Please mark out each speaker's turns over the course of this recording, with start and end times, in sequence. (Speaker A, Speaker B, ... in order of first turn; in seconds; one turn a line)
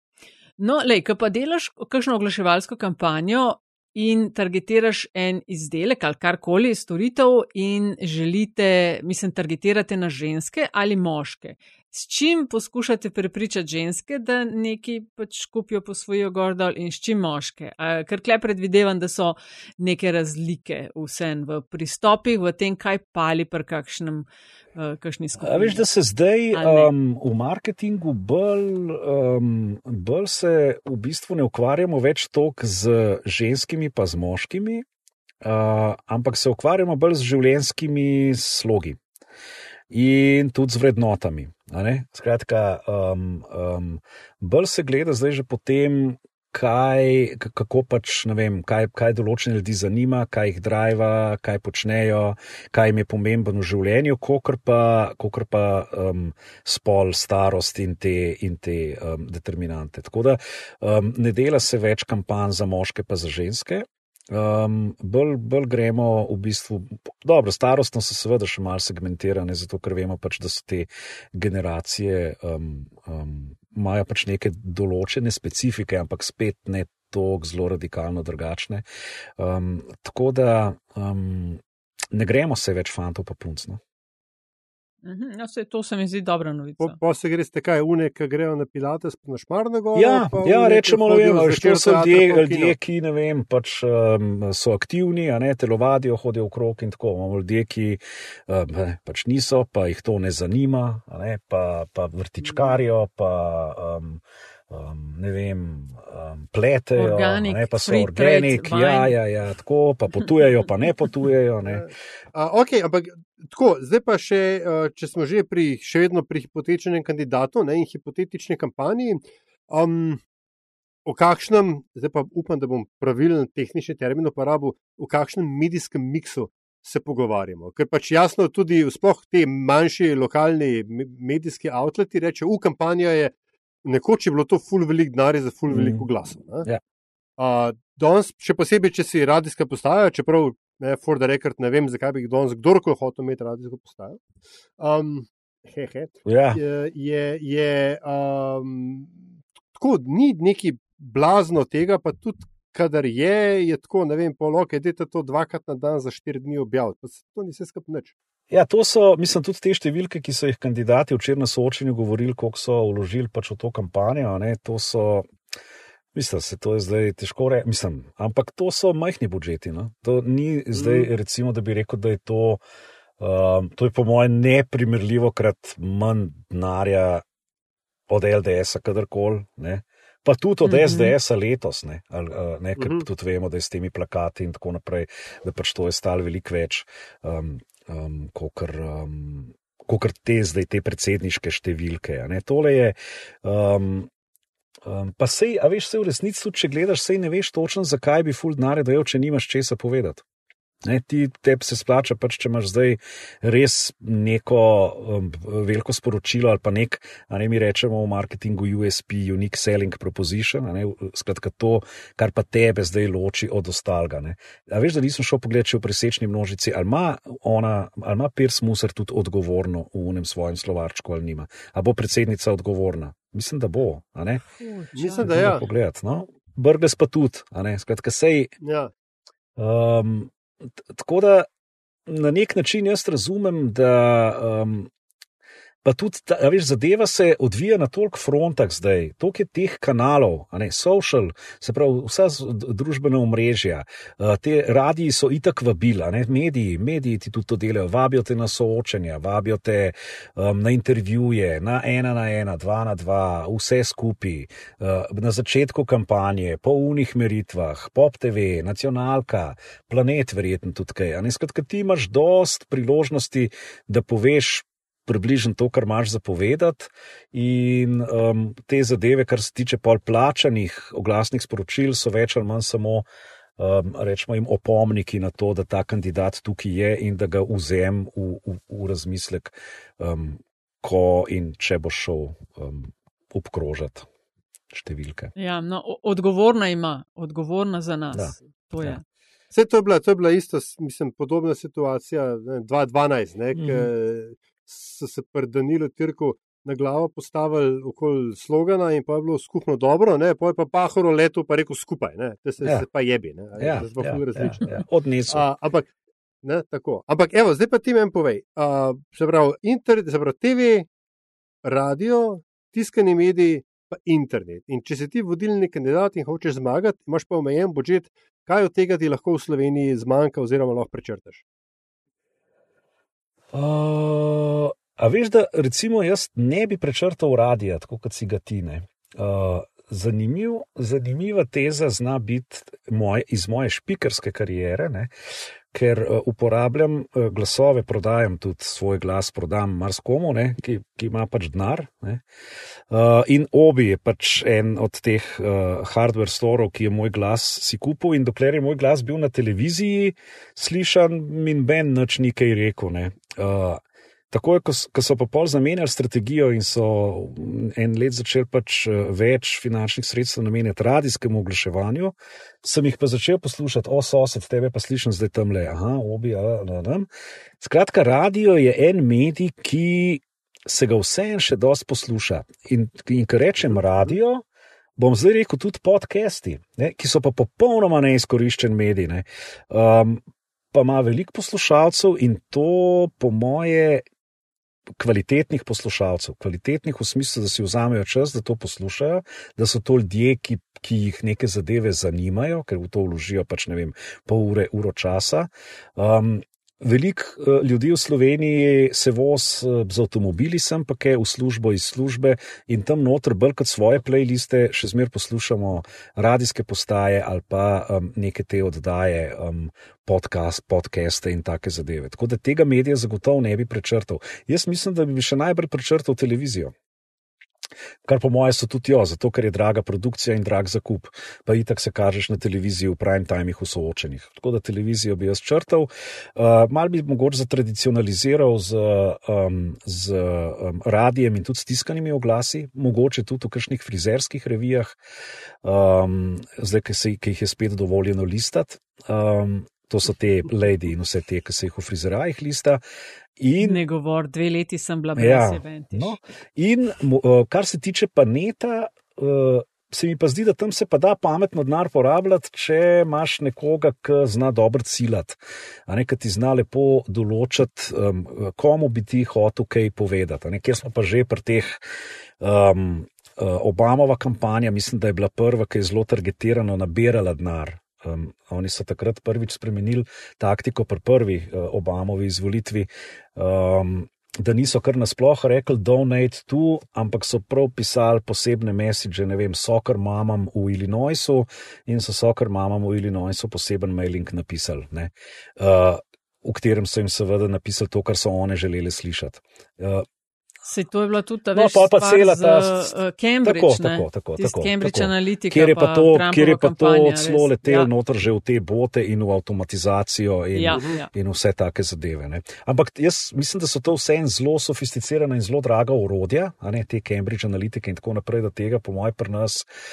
Speaker A: 0.6-25.8
Speaker B: 25.4-34.9
Speaker A: 26.6-26.9
Speaker B: 35.4-39.0
Speaker B: 39.9-78.8
Speaker B: 79.4-83.8
Speaker A: 85.0-87.0
Speaker C: 86.8-92.8
Speaker B: 89.9-111.9
Speaker A: 107.0-109.1
Speaker C: 111.7-120.2
Speaker C: 121.0-133.3
Speaker C: 133.8-136.7
Speaker B: 135.7-136.1
Speaker C: 137.4-144.2
Speaker C: 144.8-149.2
Speaker B: 146.2-146.6
Speaker C: 149.7-158.1
Speaker B: 158.5-165.3
Speaker B: 166.1-172.6
Speaker C: 170.7-171.1
Speaker B: 173.2-177.2
Speaker B: 178.1-194.1
Speaker A: 180.6-181.2
Speaker C: 182.8-183.1
Speaker B: 194.8-200.2
Speaker B: 200.8-224.4
Speaker A: 224.6-225.6
Speaker C: 224.9-225.6
Speaker B: 225.2-228.5
Speaker C: 228.6-228.9
Speaker B: 229.6-230.3
Speaker B: 230.8-231.5
Speaker B: 232.1-234.9
Speaker B: 235.8-273.1
Speaker B: 273.6-284.1
Speaker B: 284.7-285.3
Speaker A: 285.4-289.0
Speaker B: 288.1-289.0
Speaker C: 289.5-305.9
Speaker B: 293.6-293.9
Speaker B: 303.6-305.5
Speaker C: 306.4-310.9
Speaker C: 311.6-321.4
Speaker B: 323.5-335.1
Speaker B: 335.7-342.2
Speaker B: 342.9-367.1
Speaker B: 367.6-374.4
Speaker B: 375.0-384.1
Speaker B: 385.0-416.7
Speaker B: 418.1-435.0
Speaker B: 435.6-442.8
Speaker B: 443.4-443.8
Speaker A: 443.6-446.2
Speaker B: 445.2-461.8
Speaker B: 462.4-490.1
Speaker A: 490.6-497.9
Speaker B: 491.5-509.7
Speaker A: 500.6-501.1